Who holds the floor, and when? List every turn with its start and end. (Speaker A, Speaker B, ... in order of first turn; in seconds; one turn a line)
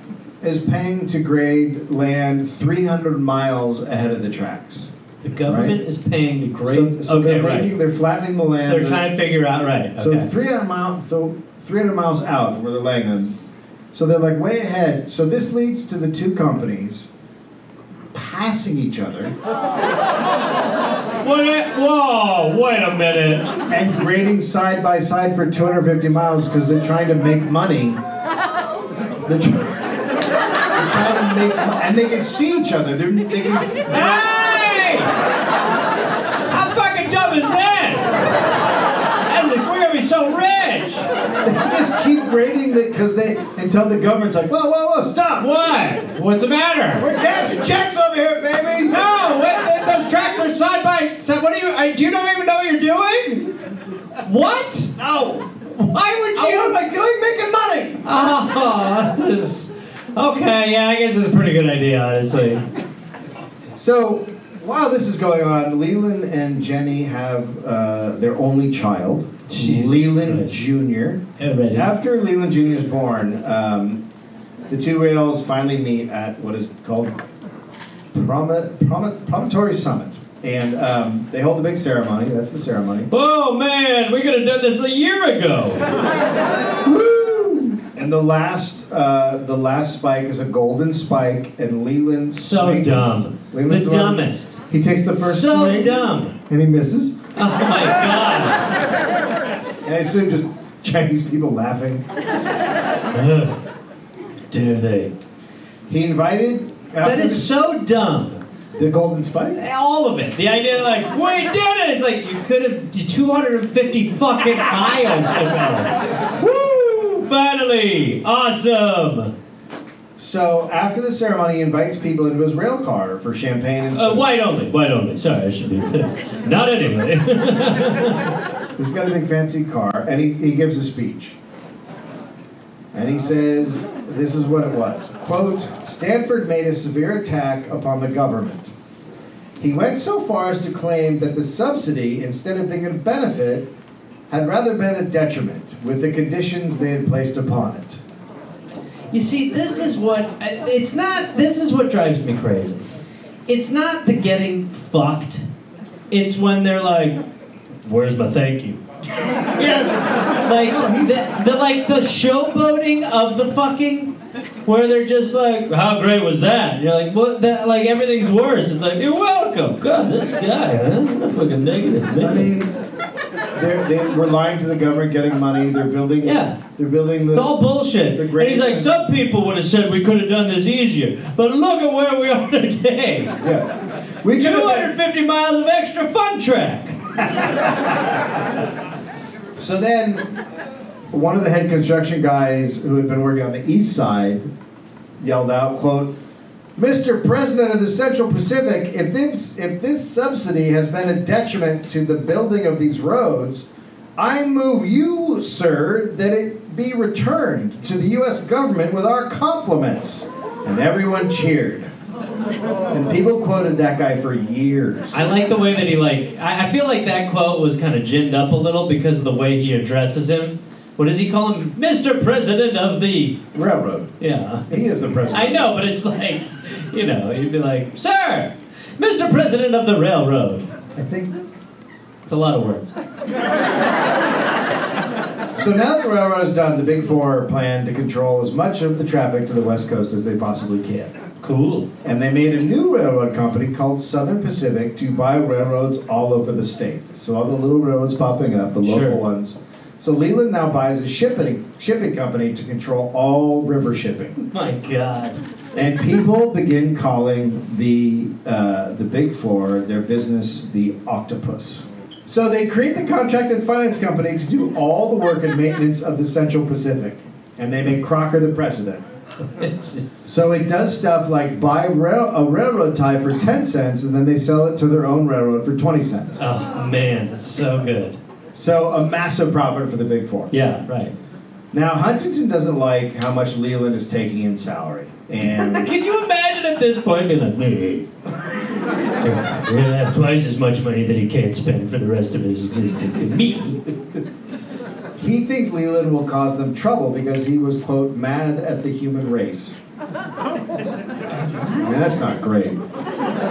Speaker A: 0.4-4.9
Speaker B: 5.2-7.8
Speaker A: 5.5-5.8
Speaker A: 6.7-9.1
Speaker B: 8.6-10.3
Speaker A: 10.0-13.4
Speaker A: 13.9-17.1
Speaker A: 18.1-19.4
Speaker B: 21.2-23.5
Speaker A: 23.7-28.0
Speaker A: 29.2-30.1
Speaker A: 30.7-34.3
Speaker B: 33.9-35.1
Speaker B: 36.5-38.2
Speaker B: 39.2-41.1
Speaker A: 41.4-45.5
Speaker B: 45.4-47.0
Speaker A: 47.0-49.0
Speaker B: 48.9-53.5
Speaker B: 54.2-54.9
Speaker A: 55.0-55.5
Speaker B: 55.7-56.8
Speaker A: 56.4-58.1
Speaker B: 58.0-62.6
Speaker A: 63.8-74.0
Speaker B: 69.5-70.7
Speaker B: 71.4-71.9
Speaker A: 74.7-77.1
Speaker A: 78.1-83.1
Speaker B: 83.1-85.9
Speaker B: 86.8-87.8
Speaker A: 88.0-97.2
Speaker B: 92.3-94.6
Speaker B: 95.2-96.4
Speaker B: 97.3-98.7
Speaker A: 99.8-102.0
Speaker B: 103.1-103.6
Speaker B: 104.5-105.1
Speaker A: 105.9-107.5
Speaker B: 107.0-108.4
Speaker A: 108.8-109.6
Speaker B: 109.5-119.3
Speaker A: 120.2-124.3
Speaker B: 123.9-128.3
Speaker A: 128.8-131.4
Speaker A: 132.9-138.7
Speaker A: 139.6-143.7
Speaker A: 144.3-148.0
Speaker B: 149.1-152.8
Speaker B: 153.5-155.4
Speaker B: 156.1-157.2
Speaker B: 157.8-158.8
Speaker A: 159.5-160.1
Speaker B: 160.4-164.1
Speaker A: 160.6-161.2
Speaker B: 164.7-172.5
Speaker A: 172.2-172.7
Speaker A: 173.6-177.6
Speaker B: 176.2-176.6
Speaker B: 177.3-183.3
Speaker A: 178.1-179.0
Speaker A: 183.4-183.7
Speaker A: 184.2-184.9
Speaker B: 184.3-187.0
Speaker A: 189.6-190.3
Speaker A: 191.1-194.5
Speaker A: 195.2-196.2
Speaker A: 196.8-211.9
Speaker A: 212.9-215.3
Speaker B: 215.1-223.4
Speaker A: 223.5-224.2
Speaker B: 224.2-224.7
Speaker A: 224.7-225.8
Speaker B: 225.3-230.7
Speaker A: 230.9-231.4
Speaker B: 232.2-232.9
Speaker A: 235.6-241.1
Speaker B: 241.4-241.9
Speaker A: 242.0-254.4
Speaker B: 248.8-249.2
Speaker B: 254.4-255.4
Speaker A: 255.8-269.1
Speaker B: 269.6-270.3
Speaker A: 270.3-276.4
Speaker B: 276.4-278.2
Speaker A: 278.5-280.7
Speaker B: 280.5-281.1
Speaker A: 281.7-285.9
Speaker B: 285.4-288.1
Speaker B: 289.2-293.8
Speaker A: 295.2-299.8
Speaker B: 301.5-301.9
Speaker A: 301.8-302.8